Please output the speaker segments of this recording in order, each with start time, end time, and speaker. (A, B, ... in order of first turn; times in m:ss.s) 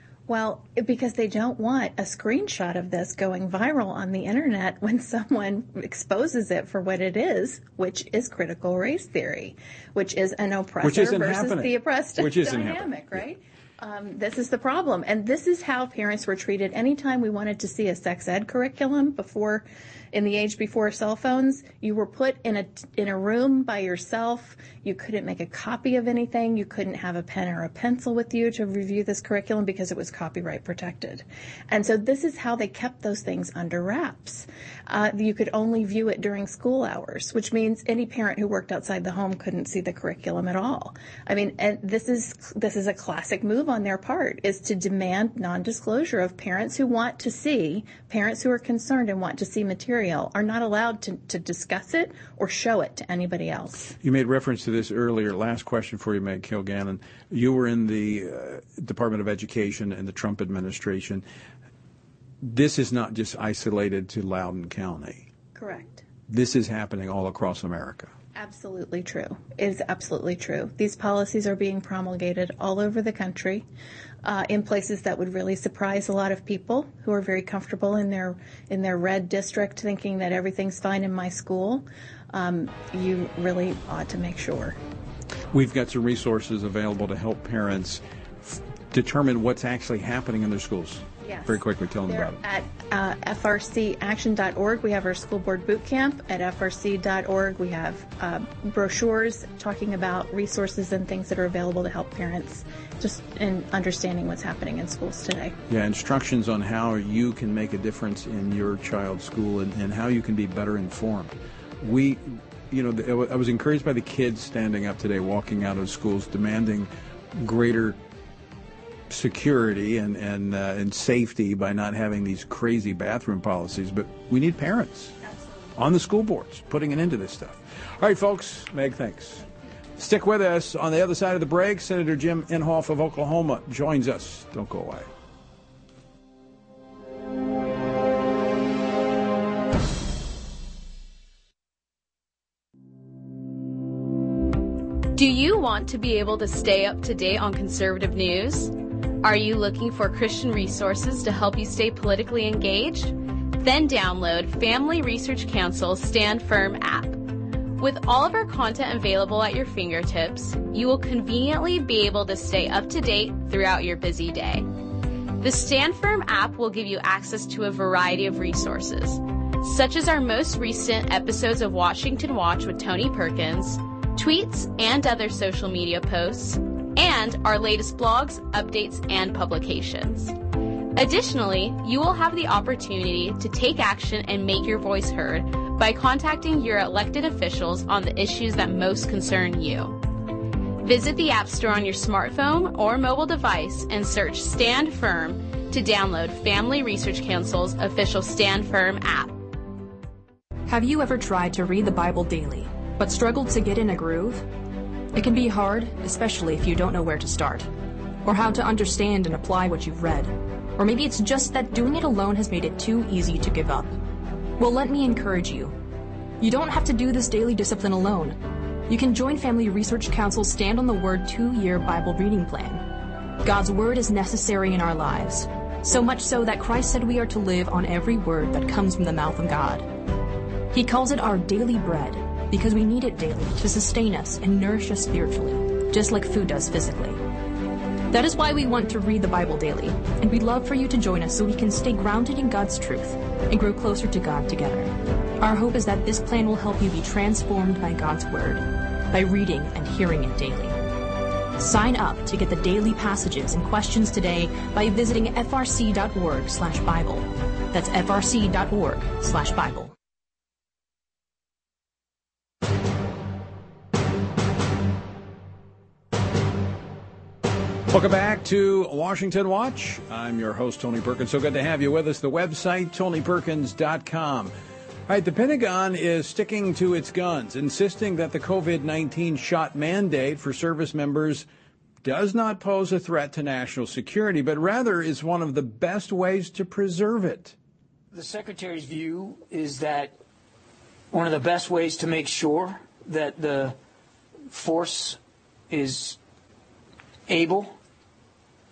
0:00.3-0:53.9 A
0:10.8-0:13.2 B
0:54.0-1:01.2 B
1:02.4-1:05.3 B
1:05.6-1:06.0 A
1:06.3-1:08.1 B
1:08.4-1:13.7 A
1:14.2-1:24.8 A
1:25.5-1:32.4 B
1:31.2-1:45.6 A
1:45.7-1:58.0 B
1:59.1-2:05.2 B
2:05.8-2:09.4 B
2:10.0-2:15.1 B
2:25.2-2:37.2 C
2:37.8-2:44.7 C
2:45.4-3:00.4 C
3:01.0-3:10.0 C
3:10.8-3:19.4 C
3:20.7-3:24.5 D
3:25.1-3:27.7 D
3:28.2-3:34.0 D
3:34.6-3:35.8 D
3:36.4-3:42.8 D
3:43.4-3:49.9 D
3:50.7-3:57.2 D
3:58.1-4:10.8 D
4:11.6-4:19.9 D
4:27.9-4:34.5 B
4:35.1-4:41.5 B
4:42.0-4:47.6 B
4:48.1-4:50.2 E
4:51.1-4:53.8 E
4:54.5-4:55.2 E
4:55.7-4:56.2 E
4:57.3-4:57.8 E